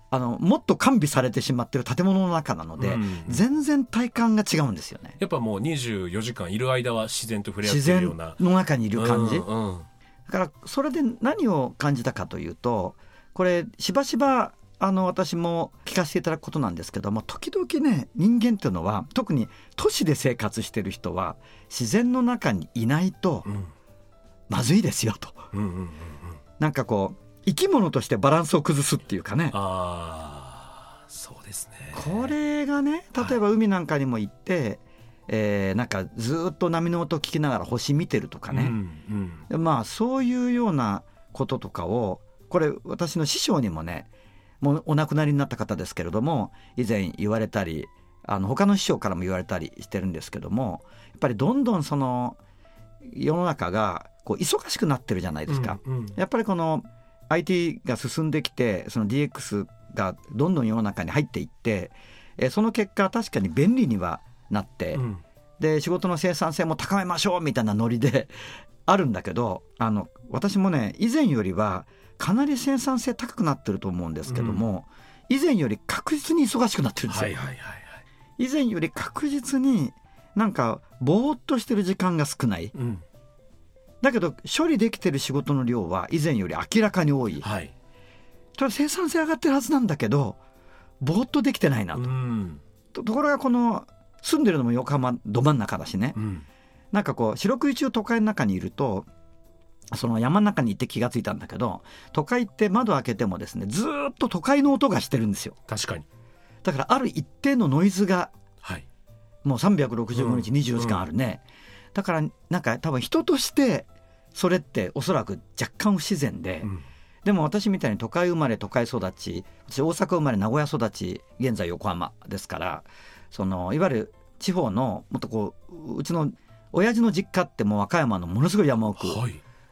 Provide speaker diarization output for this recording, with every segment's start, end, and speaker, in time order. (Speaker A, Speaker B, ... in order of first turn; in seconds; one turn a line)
Speaker A: 0.1-5.2
Speaker B: 2.8-3.4
Speaker B: 5.2-8.4
Speaker A: 7.6-9.5
Speaker B: 9.0-9.9
Speaker A: 10.3-23.5
Speaker B: 23.4-23.7
Speaker A: 24.5-25.5
Speaker B: 25.5-26.4
Speaker A: 26.6-29.6
Speaker B: 29.5-32.3
Speaker A: 31.9-38.8
Speaker B: 38.5-39.4
Speaker A: 39.5-44.1
Speaker A: 44.6-52.4
Speaker A: 53.0-65.0
Speaker B: 55.5-56.2
Speaker B: 65.0-65.2
Speaker A: 65.6-77.3
Speaker B: 74.3-74.6
Speaker B: 77.1-78.0
Speaker A: 78.4-82.7
Speaker B: 82.8-83.0
Speaker A: 84.0-87.5
Speaker B: 87.4-87.7
Speaker A: 88.6-90.4
Speaker A: 91.0-92.1
Speaker B: 91.9-92.6
Speaker A: 92.9-96.2
Speaker B: 96.2-96.4
Speaker A: 96.9-99.1
Speaker A: 99.9-105.6
Speaker B: 105.7-106.1
Speaker A: 106.6-108.3
Speaker A: 109.5-111.4
Speaker B: 110.1-111.0
Speaker A: 111.9-129.2
Speaker B: 129.0-129.4